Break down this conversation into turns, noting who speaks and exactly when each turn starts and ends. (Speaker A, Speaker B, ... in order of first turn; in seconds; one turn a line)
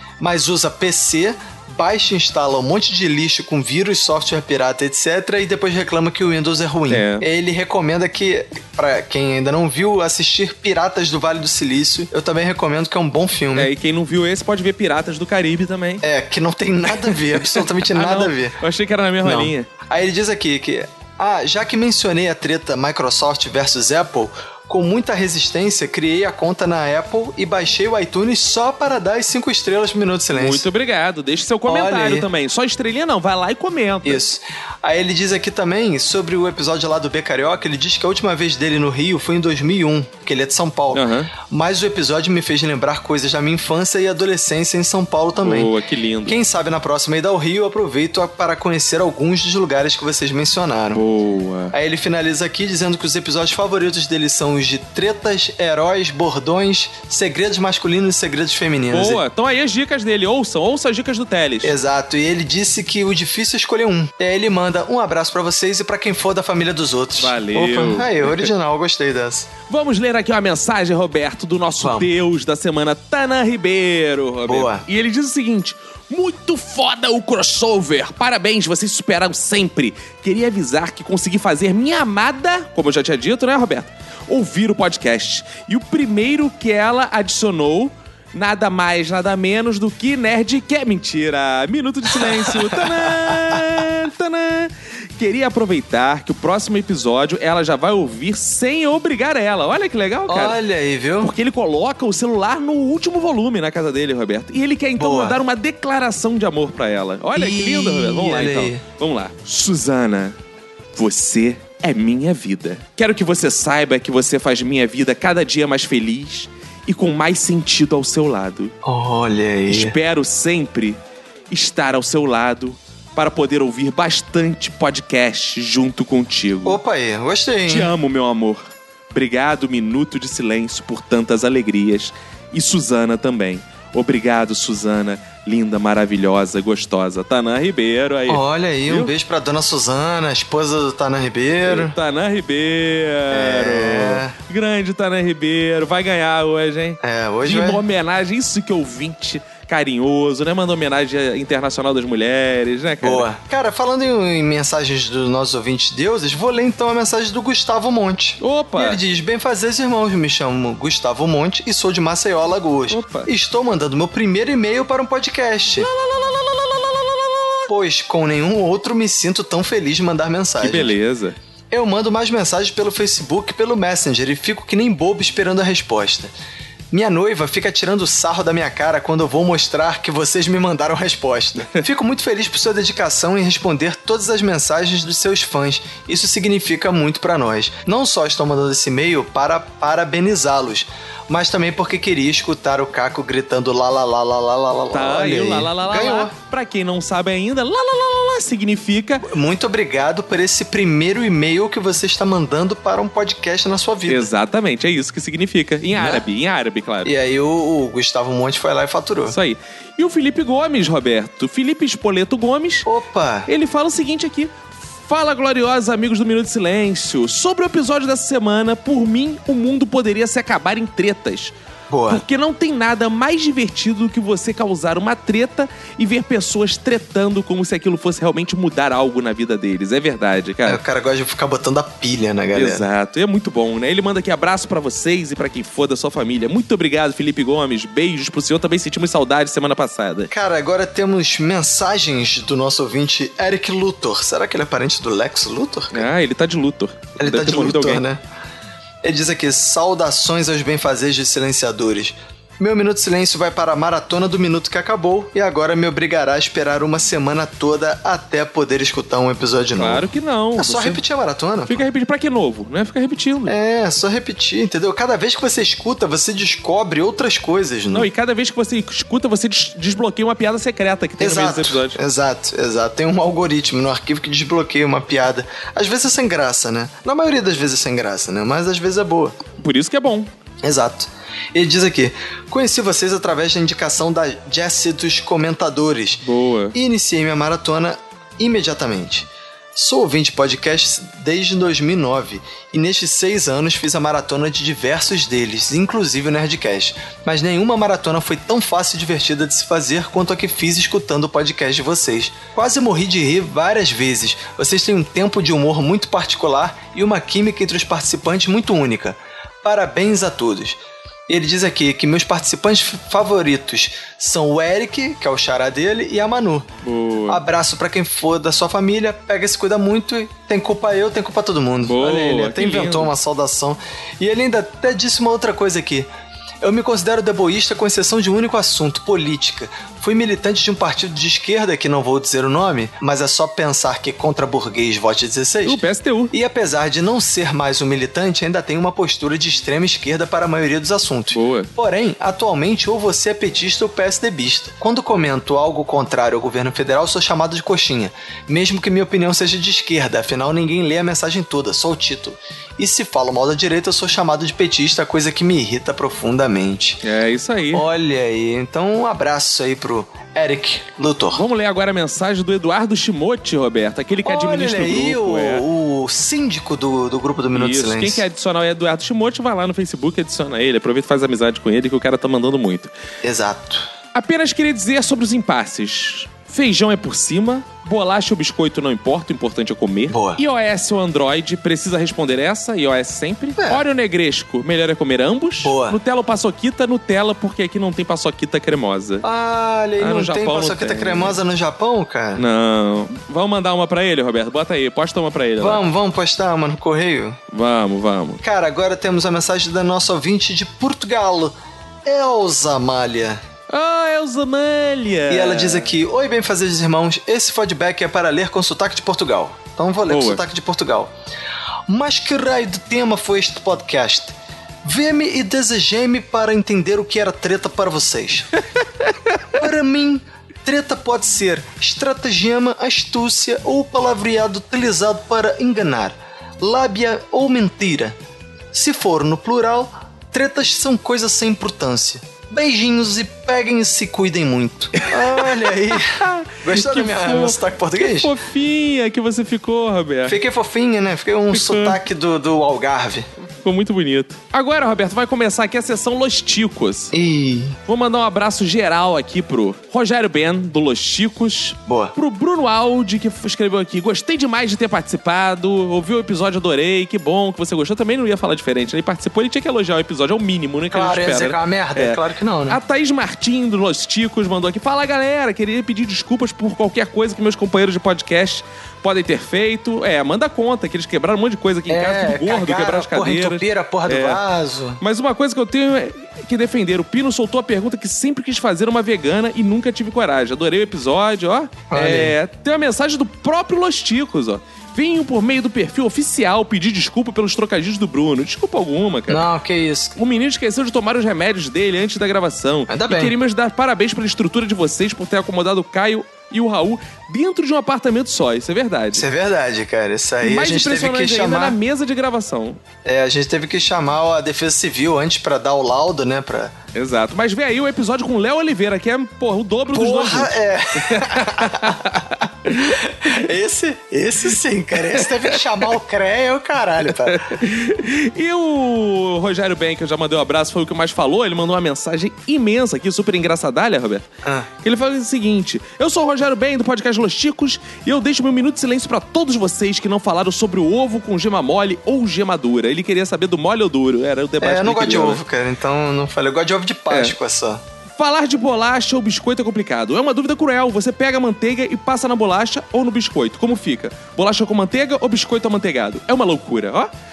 Speaker A: 0.2-13.7
Speaker B: 6.9-7.3
Speaker B: 13.5-16.0
Speaker A: 16.0-18.6
Speaker B: 16.9-19.7
Speaker A: 19.2-30.7
Speaker B: 30.3-34.2
Speaker A: 31.7-32.3
Speaker A: 34.0-45.7
Speaker B: 40.9-41.3
Speaker B: 45.4-46.4
Speaker A: 46.3-51.0
Speaker B: 50.9-51.7
Speaker A: 51.7-59.2
Speaker B: 58.9-61.7
Speaker A: 61.6-69.6
Speaker B: 67.2-68.5
Speaker B: 69.7-100.6
Speaker A: 71.8-72.1
Speaker A: 74.5-74.8
Speaker A: 92.1-93.6
Speaker A: 100.3-101.3
Speaker B: 101.2-110.3
Speaker A: 105.0-105.4
Speaker A: 107.3-108.8
Speaker B: 110.9-118.7
Speaker A: 118.8-120.0
Speaker B: 119.7-126.8
Speaker A: 126.6-127.9
Speaker B: 127.7-139.1
Speaker A: 138.3-141.9
Speaker B: 141.6-153.3
Speaker A: 143.3-144.3
Speaker A: 147.0-147.8
Speaker A: 153.0-165.9
Speaker B: 158.4-159.0
Speaker B: 162.9-163.3
Speaker B: 165.8-166.8
Speaker A: 167.7-170.9
Speaker B: 170.6-171.4
Speaker A: 171.7-176.3
Speaker A: 176.9-196.3
Speaker B: 194.9-199.3
Speaker A: 199.2-204.3
Speaker B: 204.1-207.1
Speaker A: 205.9-206.2
Speaker A: 207.0-209.3
Speaker B: 209.3-212.9
Speaker A: 212.8-213.5
Speaker B: 213.4-221.5
Speaker A: 221.9-222.2
Speaker B: 222.1-230.8
Speaker A: 230.6-232.8
Speaker B: 232.5-240.3
Speaker A: 240.3-246.1
Speaker B: 245.9-248.0
Speaker A: 247.2-248.2
Speaker A: 249.0-261.8
Speaker B: 259.7-261.0
Speaker B: 261.6-263.6
Speaker A: 263.4-268.1
Speaker B: 267.9-272.0
Speaker A: 271.2-279.4
Speaker B: 279.6-280.3
Speaker A: 280.6-286.2
Speaker B: 286.2-286.7
Speaker A: 286.7-316.7
Speaker B: 316.8-317.4
Speaker A: 317.3-326.1
Speaker B: 321.8-323.1
Speaker A: 326.6-335.8
Speaker B: 335.6-336.3
Speaker A: 336.3-357.0
Speaker B: 341.3-341.7
Speaker B: 357.0-357.9
Speaker A: 357.7-361.4
Speaker B: 361.3-365.6
Speaker A: 364.2-368.2
Speaker B: 367.5-372.9
Speaker A: 373.2-373.9
Speaker B: 374.1-389.3
Speaker A: 380.1-380.4
Speaker A: 383.6-383.8
Speaker A: 385.6-386.0
Speaker A: 389.2-392.4
Speaker B: 390.0-391.4
Speaker B: 392.4-395.8
Speaker A: 395.6-397.4
Speaker B: 397.5-398.4
Speaker A: 398.4-403.4
Speaker B: 403.7-405.9
Speaker A: 405.3-411.1
Speaker B: 410.1-410.4
Speaker A: 411.9-418.5
Speaker A: 419.6-428.2
Speaker A: 428.7-438.3
Speaker B: 435.0-440.4
Speaker A: 440.3-443.3
Speaker B: 441.5-442.0
Speaker B: 443.6-447.1
Speaker A: 447.1-447.8
Speaker B: 447.9-474.4
Speaker A: 451.9-452.1
Speaker A: 460.9-462.8
Speaker A: 471.9-475.0
Speaker B: 475.0-489.4
Speaker A: 481.9-482.4
Speaker A: 489.3-490.1
Speaker B: 490.1-499.3
Speaker A: 492.9-493.3
Speaker A: 499.1-501.8
Speaker B: 500.4-502.8
Speaker A: 503.0-506.7
Speaker B: 506.9-513.3
Speaker A: 509.9-512.0
Speaker A: 512.7-517.5
Speaker B: 515.0-515.9
Speaker B: 517.1-524.3
Speaker B: 524.8-535.4
Speaker A: 534.6-537.8
Speaker B: 537.1-537.3
Speaker B: 538.1-547.1